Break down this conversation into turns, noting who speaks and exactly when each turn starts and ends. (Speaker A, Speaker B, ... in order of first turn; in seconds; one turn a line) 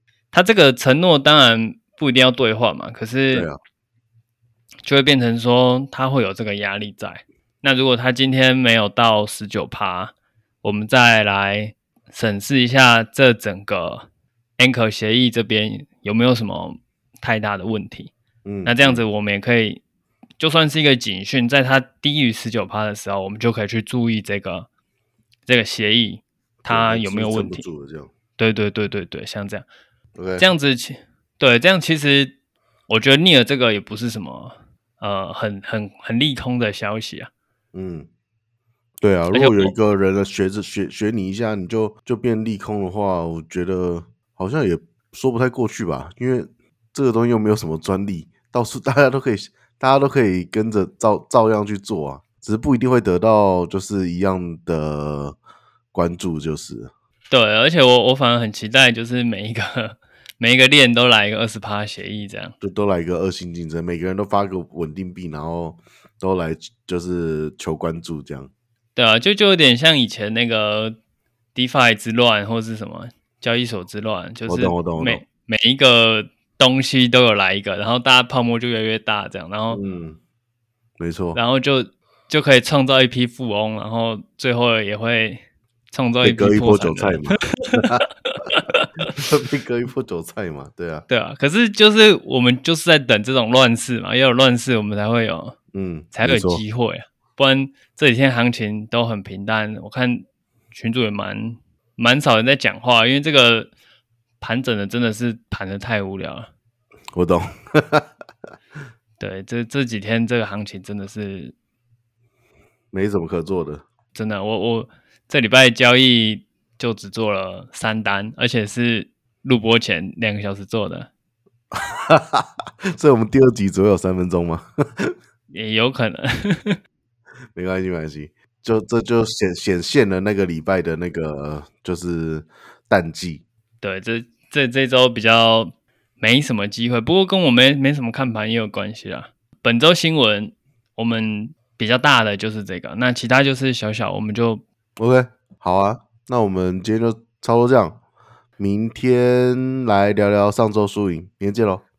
Speaker A: 0.3-3.5
Speaker B: 3.3-3.6
Speaker A: 4.8-14.1
Speaker A: 14.6-18.1
Speaker B: 18.4-19.0
Speaker A: 18.6-19.8
Speaker A: 20.4-24.7
Speaker A: 25.5-27.7
Speaker B: 26.6-28.1
Speaker A: 28.4-29.7
Speaker B: 30.2-30.5
Speaker A: 30.4-32.4
Speaker A: 32.9-37.3
Speaker B: 37.7-38.1
Speaker B: 39.0-55.4
Speaker A: 39.3-39.7
Speaker B: 55.9-56.9
Speaker A: 57.3-62.5
Speaker B: 62.6-68.5
Speaker A: 69.0-71.0
Speaker A: 71.5-79.8
Speaker B: 74.5-75.2
Speaker B: 79.7-80.2
Speaker B: 81.0-81.4
Speaker A: 81.3-85.4
Speaker A: 85.9-89.0
Speaker B: 86.2-88.0
Speaker B: 89.0-91.1
Speaker A: 91.1-95.6
Speaker B: 95.7-96.6
Speaker A: 96.1-103.7
Speaker A: 104.4-106.5
Speaker B: 107.1-108.1
Speaker A: 109.2-111.5
Speaker B: 112.9-113.8
Speaker A: 114.2-121.1
Speaker B: 121.7-125.2
Speaker A: 125.5-126.8
Speaker B: 127.6-133.4
Speaker A: 133.8-144.6
Speaker B: 145.0-148.0
Speaker B: 148.6-151.8